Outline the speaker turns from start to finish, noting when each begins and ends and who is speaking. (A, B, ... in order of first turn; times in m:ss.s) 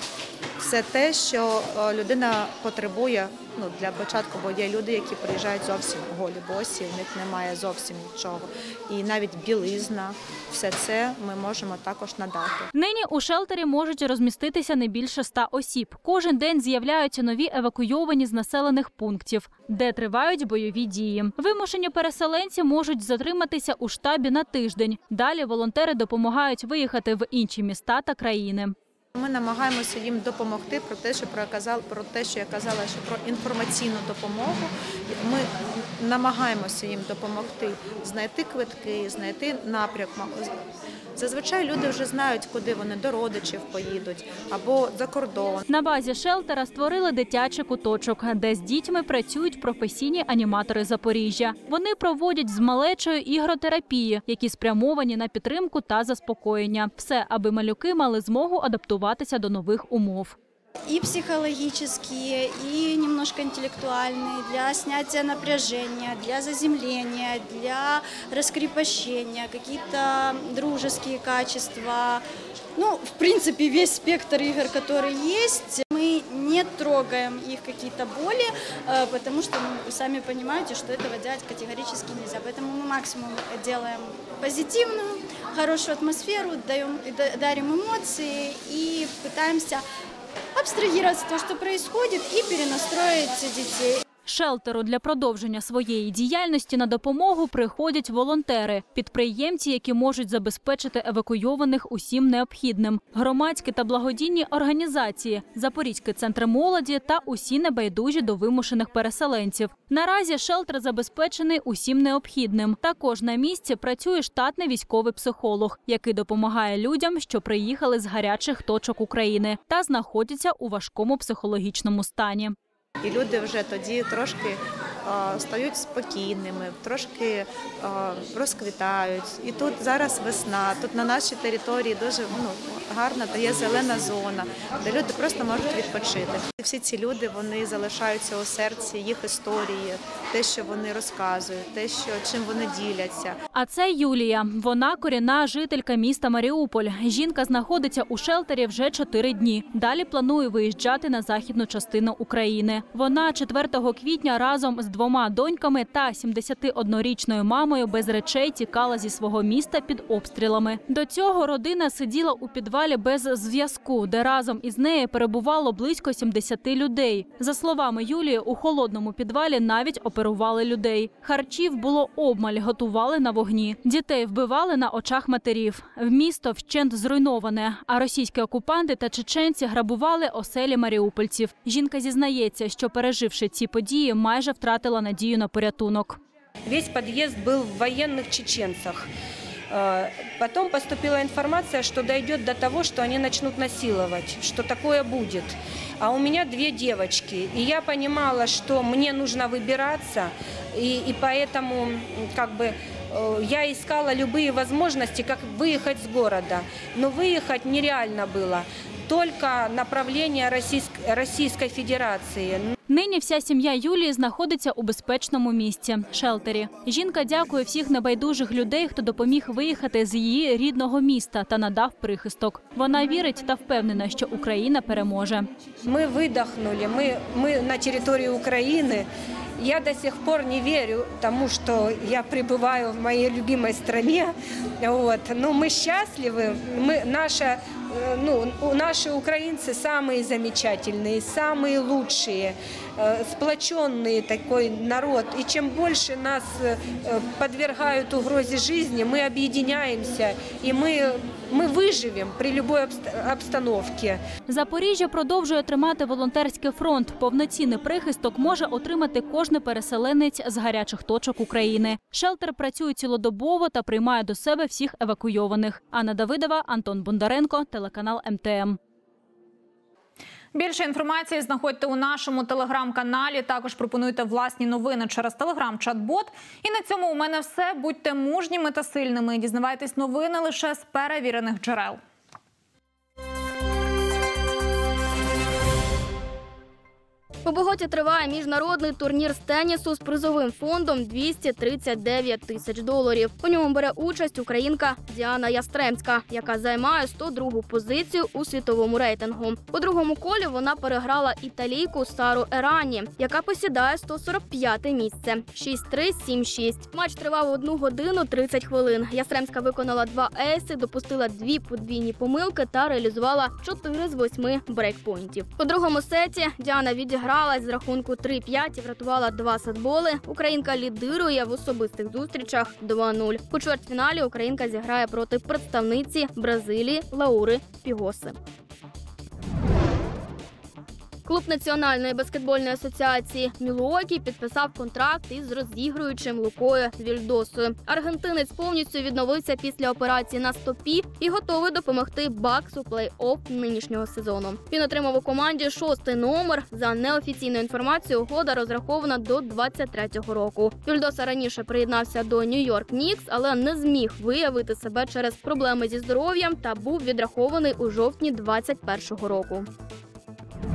0:00.6-0:12.7 A
0:12.7-0:28.7 B
0:29.1-0:40.5 A
0:41.2-0:45.6 A
0:45.7-1:00.4 B
1:00.9-1:12.2 C
1:12.8-1:29.8 C
1:30.5-1:34.0 C
1:34.2-2:02.6 B
2:03.0-2:23.4 A
2:23.5-3:06.2 B
3:06.7-3:09.1 D
3:09.7-3:32.7 D
3:32.9-3:45.5 B
3:45.8-3:49.1 D
3:49.6-4:14.2 D
4:14.5-4:28.8 B
4:30.5-4:42.0 E
4:47.4-5:28.4 F
5:31.2-5:59.7 F